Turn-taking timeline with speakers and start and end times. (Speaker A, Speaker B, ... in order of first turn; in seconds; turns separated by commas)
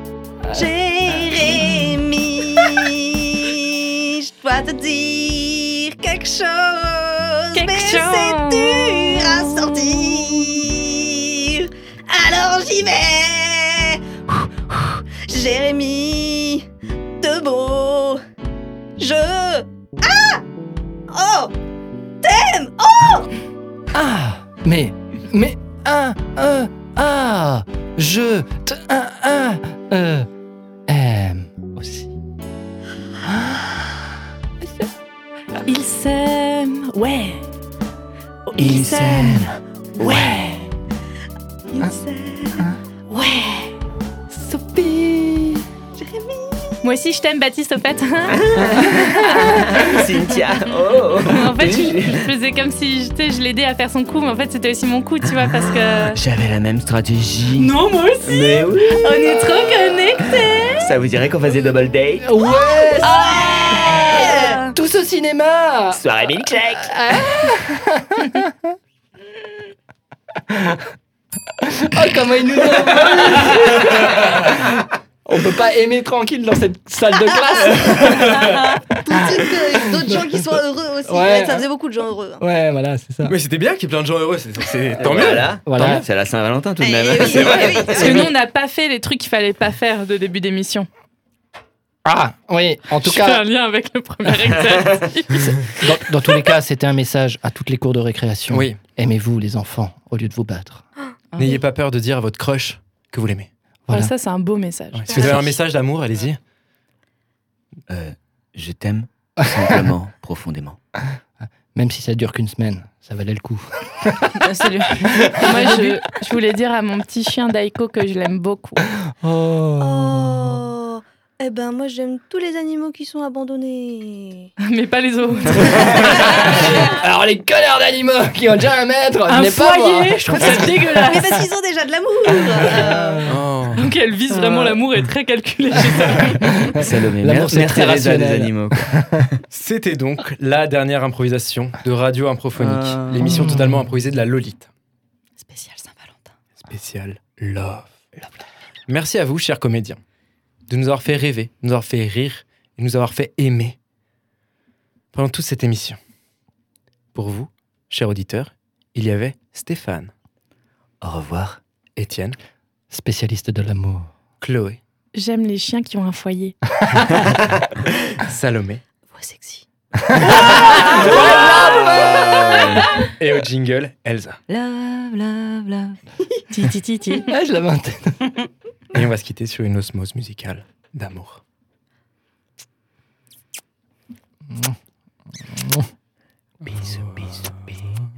Speaker A: 0.4-1.8, Speaker B: 0.5-16.7, Speaker C: 7.5-10.3, Speaker B: 17.2-18.2, Speaker B: 19.0-20.4, Speaker B: 21.1-21.5, Speaker B: 22.2-23.3, Speaker A: 23.9-30.3, Speaker A: 30.9-32.1, Speaker A: 33.2-34.9, Speaker C: 35.6-37.5, Speaker C: 38.5-40.5, Speaker D: 38.6-39.6, Speaker A: 40.0-40.6, Speaker B: 41.7-43.7, Speaker C: 44.3-45.6, Speaker B: 46.0-46.8, Speaker C: 46.8-50.0, Speaker D: 48.5-52.3, Speaker C: 51.2-56.2, Speaker D: 56.1-59.5, Speaker C: 57.6-60.9, Speaker D: 60.8-62.3, Speaker A: 62.2-63.2, Speaker B: 62.5-64.7, Speaker C: 63.0-64.6, Speaker A: 64.7-66.0, Speaker D: 65.9-66.9, Speaker A: 66.8-68.8, Speaker A: 70.5-70.9, Speaker A: 71.6-80.4, Speaker E: 77.9-78.7, Speaker B: 79.0-82.4, Speaker A: 81.1-81.7, Speaker A: 82.4-83.3, Speaker E: 83.2-85.6, Speaker D: 85.0-88.3, Speaker A: 85.7-86.0, Speaker B: 86.8-88.3, Speaker C: 87.3-90.9, Speaker A: 92.1-93.5, Speaker C: 93.0-96.5, Speaker D: 94.7-94.9, Speaker A: 95.6-100.8, Speaker E: 98.5-98.8, Speaker F: 101.3-101.6, Speaker E: 101.4-103.5, Speaker A: 103.9-104.1, Speaker C: 103.9-105.6, Speaker E: 104.9-106.4, Speaker D: 107.9-110.8, Speaker A: 111.7-114.3, Speaker F: 114.4-115.5, Speaker A: 115.0-115.7, Speaker C: 115.2-118.8, Speaker A: 119.1-120.6, Speaker B: 119.8-124.5, Speaker C: 124.6-126.8, Speaker A: 125.6-131.2, Speaker C: 129.3-131.5, Speaker B: 130.5-133.2, Speaker A: 132.5-133.5, Speaker E: 133.3-133.9, Speaker C: 133.8-136.8, Speaker D: 134.4-134.8, Speaker A: 136.0-139.2, Speaker D: 136.8-139.4, Speaker E: 139.5-144.7, Speaker D: 142.6-143.5, Speaker A: 143.2-143.8, Speaker F: 145.4-146.3, Speaker E: 146.6-148.1, Speaker E: 148.9-150.0, Speaker E: 150.7-153.8, Speaker E: 155.1-156.0, Speaker E: 157.1-160.1, Speaker D: 161.0-161.6, Speaker E: 162.0-162.4, Speaker A: 162.9-164.1, Speaker E: 164.4-164.8, Speaker C: 165.2-166.6, Speaker E: 168.2-168.8, Speaker B: 169.2-169.6, Speaker A: 170.1-171.9, Speaker B: 171.1-172.2, Speaker D: 172.2-172.7, Speaker E: 173.2-174.4, Speaker F: 174.5-176.0, Speaker C: 176.5-177.3, Speaker A: 177.2-178.4, Speaker E: 178.9-181.4, Speaker A: 184.5-184.8, Speaker A: 185.4-185.9, Speaker D: 186.7-187.8